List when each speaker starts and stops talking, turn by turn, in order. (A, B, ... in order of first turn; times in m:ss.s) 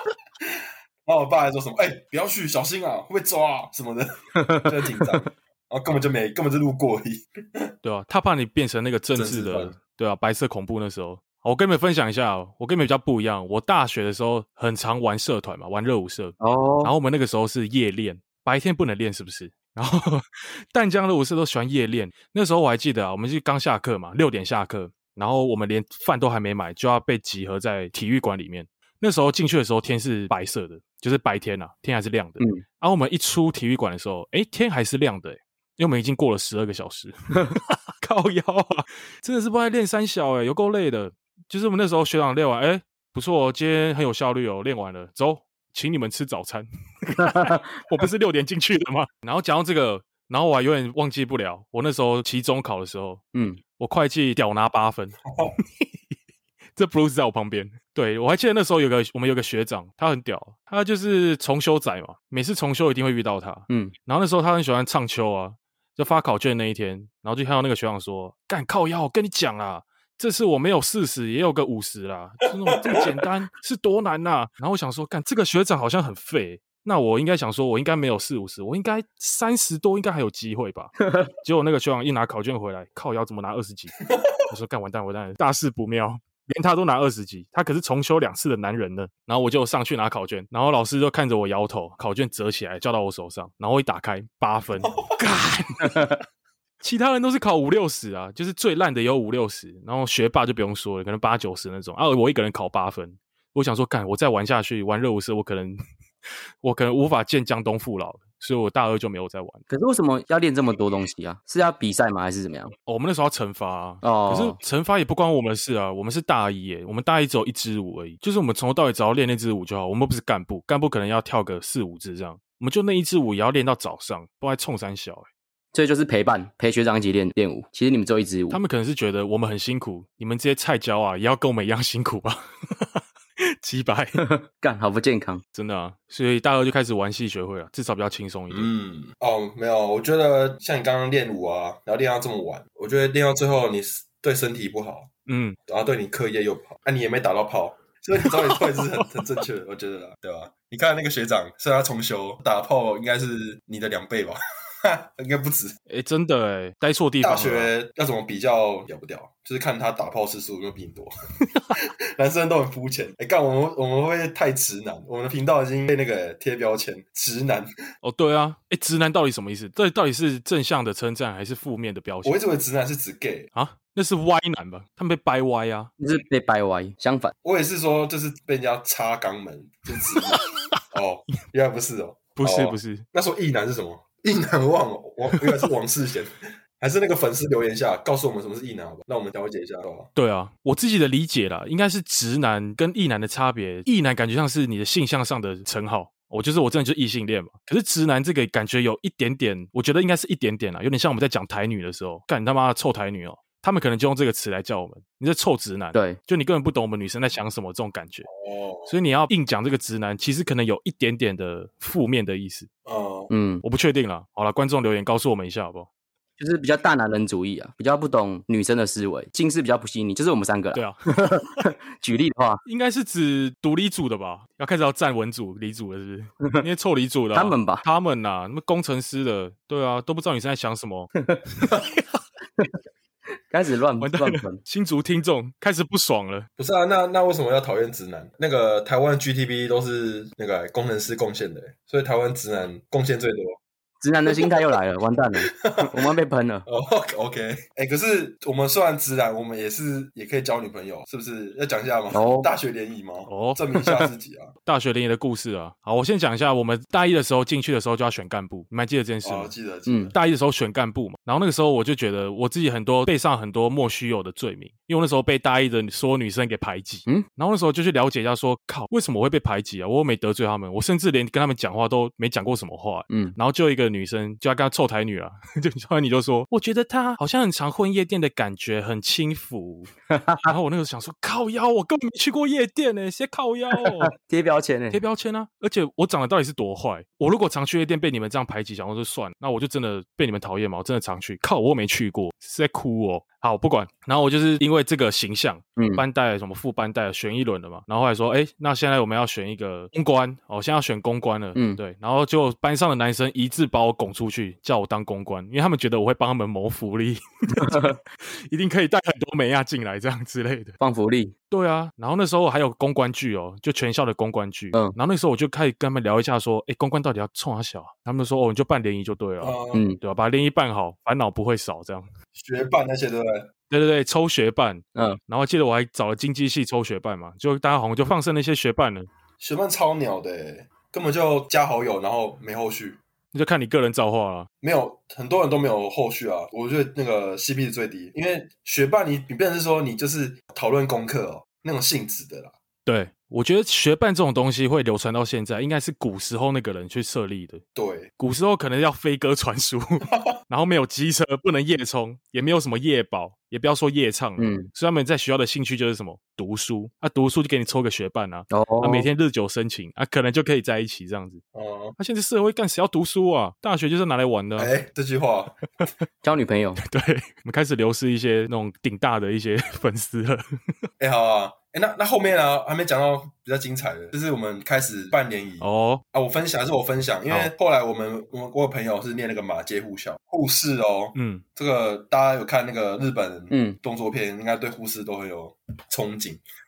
0:00.4-0:07.7 A
0:04.4-0:05.0 B
0:07.8-0:53.2 C
0:09.1-0:09.7 A
0:16.4-0:16.9 B
0:47.2-0:47.6 B
0:53.3-0:53.6 B
0:53.8-0:55.9 C
0:56.8-1:24.0 C
1:03.7-1:03.9 B
1:24.1-1:24.4 A
1:24.5-1:36.1 C
1:34.8-1:35.1 A
1:36.8-1:45.8 C
1:46.6-1:49.6 C
1:49.7-1:52.7 B
1:52.9-2:05.3 C
1:54.0-1:54.6 B
2:05.7-2:08.6 B
2:08.5-2:14.2 C
2:14.2-2:15.4 B
2:15.5-2:18.7 C
2:18.5-2:25.1 A
2:25.3-2:25.6 C
2:25.7-2:35.8 A
2:28.3-2:29.0 C
2:35.9-2:37.7 C
2:37.2-2:41.1 A
2:41.7-2:47.7 A
2:48.0-2:52.4 C
2:52.2-2:53.5 A
2:53.5-2:55.9 C
2:56.0-2:57.3 B
2:57.4-3:00.4 A
3:00.9-3:10.1 A
3:02.4-3:03.0 C
3:10.2-3:28.3 C
3:28.3-3:28.9 A
3:28.9-3:32.7 C
3:32.8-3:33.3 A
3:33.3-3:33.6 B
3:33.6-3:35.9 C
3:36.4-3:42.6 B
3:40.7-3:41.6 C
3:42.6-3:52.0 C
3:47.3-3:47.8 B
3:51.2-3:51.4 B
3:53.5-3:54.6 B
3:54.0-3:56.5 C
3:56.6-4:03.6 A
4:04.0-4:06.6 B
4:04.3-4:04.8 A
4:05.5-4:06.1 A
4:06.6-4:14.5 A
4:12.1-4:12.5 B
4:13.3-4:13.6 C
4:14.6-4:19.5 C
4:19.2-4:20.1 A
4:19.9-4:20.1 B
4:20.1-4:39.9 C
4:33.1-4:33.4 B
4:40.1-4:40.5 B
4:40.4-4:44.1 C
4:43.8-4:45.0 B
4:44.9-5:10.8 C
4:55.8-4:56.0 B
5:01.5-5:01.8 B
5:07.6-5:07.9 B
5:10.8-5:11.3 B
5:11.5-5:22.1 C
5:19.4-5:19.8 A
5:19.7-5:20.0 B
5:22.3-5:23.4 A
5:23.7-5:29.1 C
5:29.4-5:33.0 A
5:33.3-5:34.5 C
5:34.6-5:42.5 A
5:42.8-5:47.6 C
5:47.7-5:48.1 A
5:48.2-6:01.4 C
5:50.1-5:50.3 A
5:54.4-5:54.7 B
5:58.5-5:59.1 B
6:01.5-6:02.0 A
6:02.0-6:04.7 C
6:04.6-6:05.6 A
6:06.2-6:06.8 B
6:06.8-6:10.4 C
6:11.0-6:26.4 A
6:15.6-6:16.0 C
6:21.1-6:21.4 C
6:23.5-6:23.8 B